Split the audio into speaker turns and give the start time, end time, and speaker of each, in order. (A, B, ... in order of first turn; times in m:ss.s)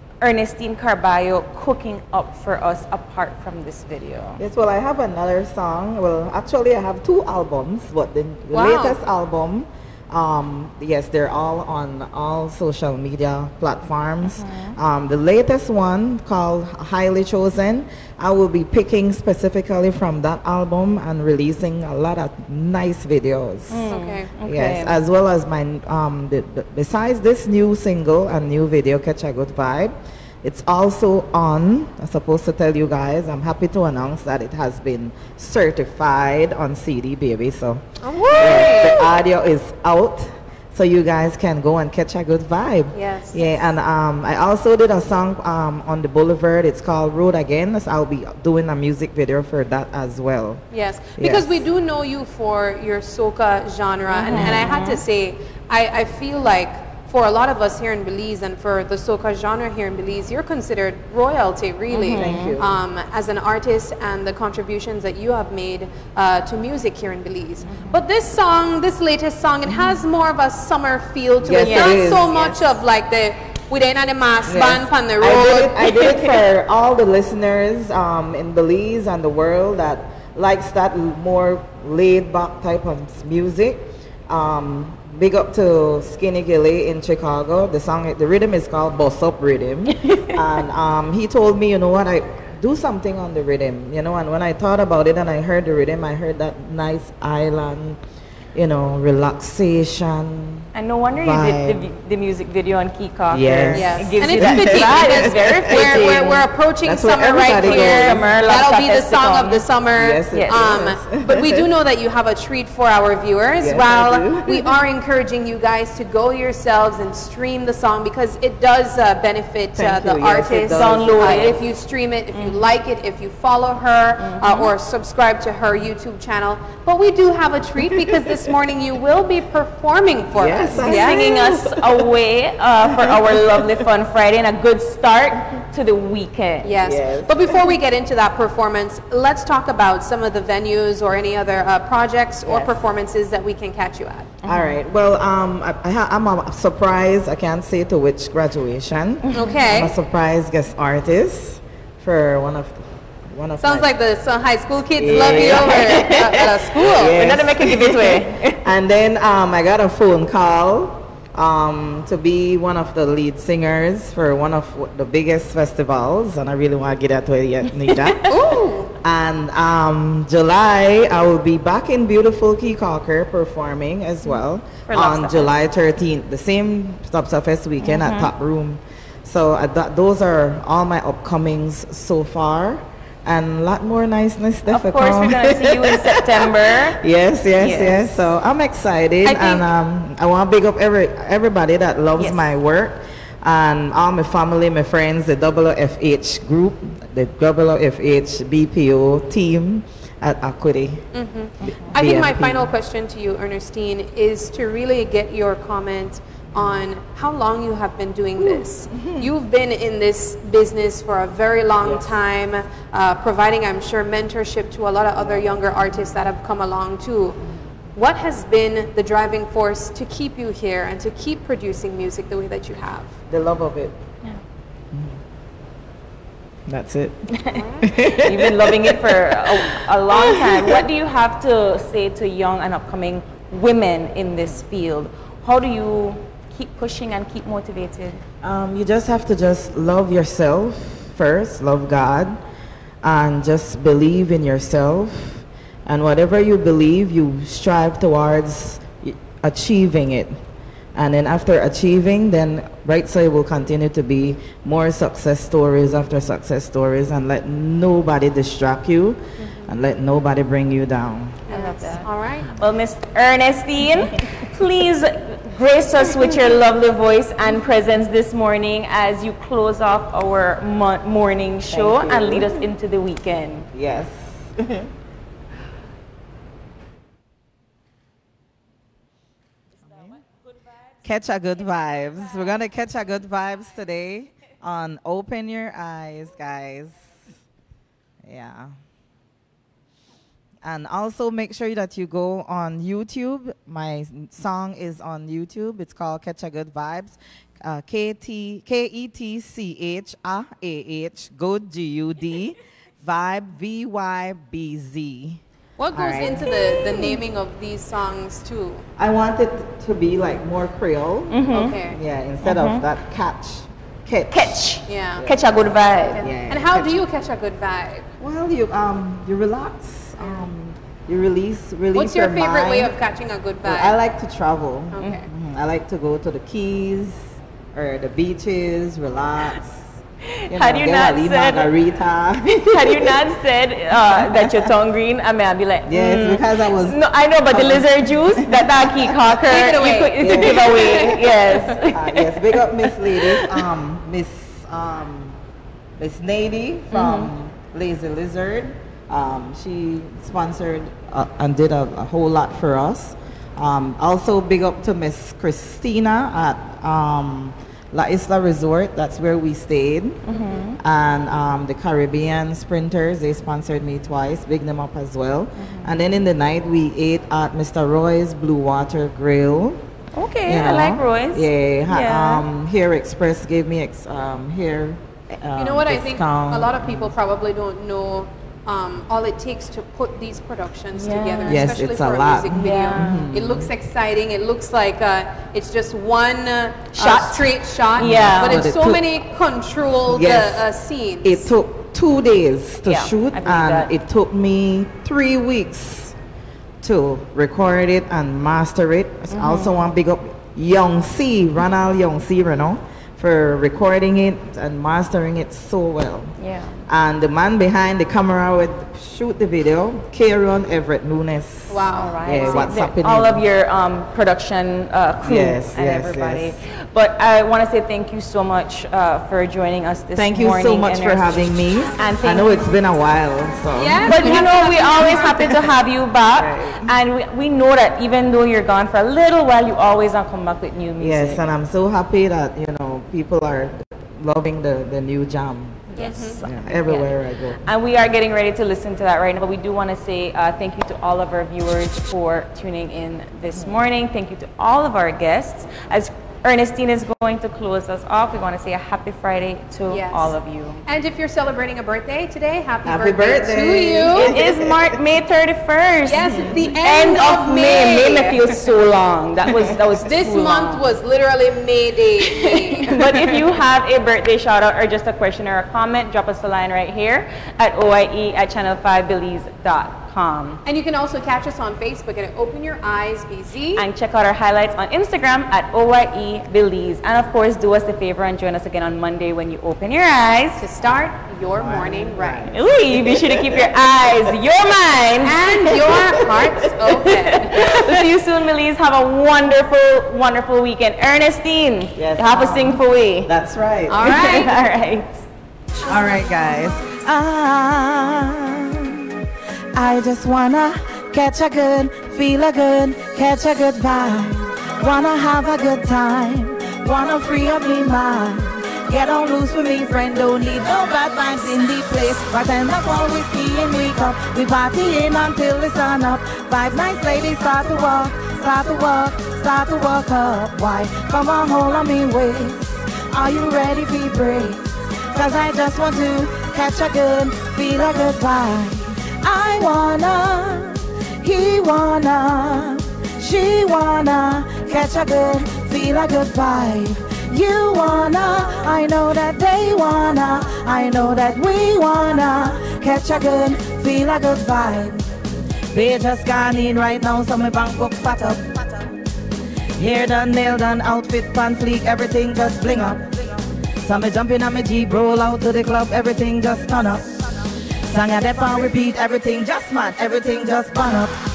0:00.2-0:04.4 A
0:04.4-0:23.9 B
0:08.5-0:09.0 C
0:14.2-0:14.7 A
0:23.7-0:25.0 A
0:23.8-0:24.3 C
0:24.4-0:37.8 B
0:38.0-0:39.1 C
0:38.4-0:50.6 B
0:42.9-0:43.6 C
0:50.7-1:16.1 C
0:51.2-0:51.6 B
0:54.1-0:55.0 A
0:54.3-0:54.7 B
1:01.9-1:02.6 A
1:02.1-1:02.7 B
1:07.6-1:08.0 A
1:11.4-1:12.8 B
1:11.6-1:12.1 A
1:14.5-1:38.0 B
1:30.0-1:30.3 A
1:38.5-1:41.9 B
1:40.7-1:46.4 A
1:43.3-1:46.2 B
1:43.7-2:11.2 C
1:46.8-1:48.3 B
1:47.6-1:49.6 A
1:50.0-1:51.7 B
1:50.3-1:50.7 A
1:53.6-1:54.7 B
1:59.7-2:01.5 B
2:00.7-2:01.7 A
2:02.3-2:02.6 A
2:04.2-2:04.7 A
2:10.3-2:12.1 B
2:10.7-2:16.7 A
2:13.0-2:13.6 B
2:16.6-2:24.3 C
2:16.8-2:17.6 B
2:24.4-2:24.8 A
2:24.4-2:33.9 B
2:29.3-2:29.9 C
2:33.6-2:37.2 C
2:35.0-2:48.3 B
2:35.1-2:38.6 A
2:47.8-2:48.3 A
2:48.3-2:48.9 C
2:49.0-3:21.0 B
2:54.3-2:55.6 A
2:57.8-2:58.3 A
3:04.7-3:07.0 A
3:07.6-3:08.3 A
3:09.2-3:09.7 C
3:12.2-3:12.6 A
3:21.1-3:37.4 C
3:21.6-3:22.0 A
3:21.9-3:22.7 B
3:26.5-3:26.8 B
3:28.4-3:29.3 B
3:31.8-3:32.1 B
3:35.2-3:36.0 B
3:37.9-3:43.1 C
3:43.3-3:44.0 B
3:46.7-3:47.2 B
3:47.4-3:58.2 A
3:47.5-3:47.9 C
3:47.8-3:50.8 B
3:58.4-4:02.4 B
4:03.0-4:10.4 B
4:10.9-4:21.4 B
4:19.4-4:19.7 C
4:21.5-4:22.5 C
4:21.5-4:33.6 A
4:31.7-4:32.6 B
4:33.7-4:34.9 B
4:41.0-4:47.1 B
4:48.2-4:48.7 B
4:50.6-5:05.4 B
5:05.8-5:08.8 C
5:05.9-5:07.0 B
5:09.0-5:14.5 B
5:11.3-5:11.8 A
5:11.5-5:12.0 C
5:12.4-5:12.8 A
5:14.3-5:16.2 A
5:14.9-5:15.2 C
5:15.2-5:15.4 B
5:16.1-5:18.0 C
5:16.2-5:17.0 B
5:18.2-5:22.9 B
5:21.9-5:24.0 C
5:23.6-5:29.9 B
5:24.9-5:25.3 C
5:30.3-5:31.7 A
5:30.5-5:33.2 B
5:32.6-5:43.6 A
5:34.2-5:34.7 B
5:35.9-5:37.0 B
5:37.5-5:39.1 B
5:39.4-5:41.8 C
5:40.2-5:41.0 B
5:41.9-5:45.4 B
5:46.0-6:00.2 B
5:46.9-5:47.3 A
6:00.2-6:00.8 A
6:00.8-6:09.8 B
6:05.6-6:06.0 A
6:10.1-6:12.4 A
6:10.4-6:17.1 B
6:15.6-6:31.5 C
6:20.9-6:21.7 A
6:21.5-6:23.7 B
6:22.5-6:23.2 A
6:26.9-6:28.7 A
6:28.0-6:29.1 B
6:30.1-6:30.6 B
6:31.2-6:36.1 B
6:32.8-6:33.9 A
6:36.8-6:46.3 B
6:39.3-6:39.8 A
6:46.4-6:46.8 A
6:46.9-6:53.4 B
6:51.7-6:52.8 C
6:51.9-7:02.8 A
6:55.2-6:56.6 B
7:00.1-7:04.4 B
7:03.7-7:05.6 C
7:04.0-7:11.5 A
7:06.4-7:06.9 B
7:11.0-7:17.6 B
7:15.9-7:16.4 C
7:16.0-7:30.8 A
7:29.9-7:30.3 C
7:30.8-7:34.4 C
7:32.8-7:35.0 B
7:34.1-7:41.0 A
7:36.0-7:38.6 C
7:36.2-7:36.7 B
7:40.0-7:43.4 C
7:42.3-7:50.6 A
7:50.6-7:53.8 C
7:53.8-8:00.6 A
8:00.6-8:02.5 C
8:01.5-8:03.8 B
8:02.5-8:05.6 A
8:05.2-8:08.0 C
8:05.8-8:06.5 B
8:07.0-8:13.3 A
8:12.0-8:14.2 B
8:13.9-8:14.5 C
8:14.0-8:15.2 A
8:15.8-8:19.2 B
8:19.7-9:05.0 B
9:05.7-9:08.9 B
9:09.8-9:21.2 B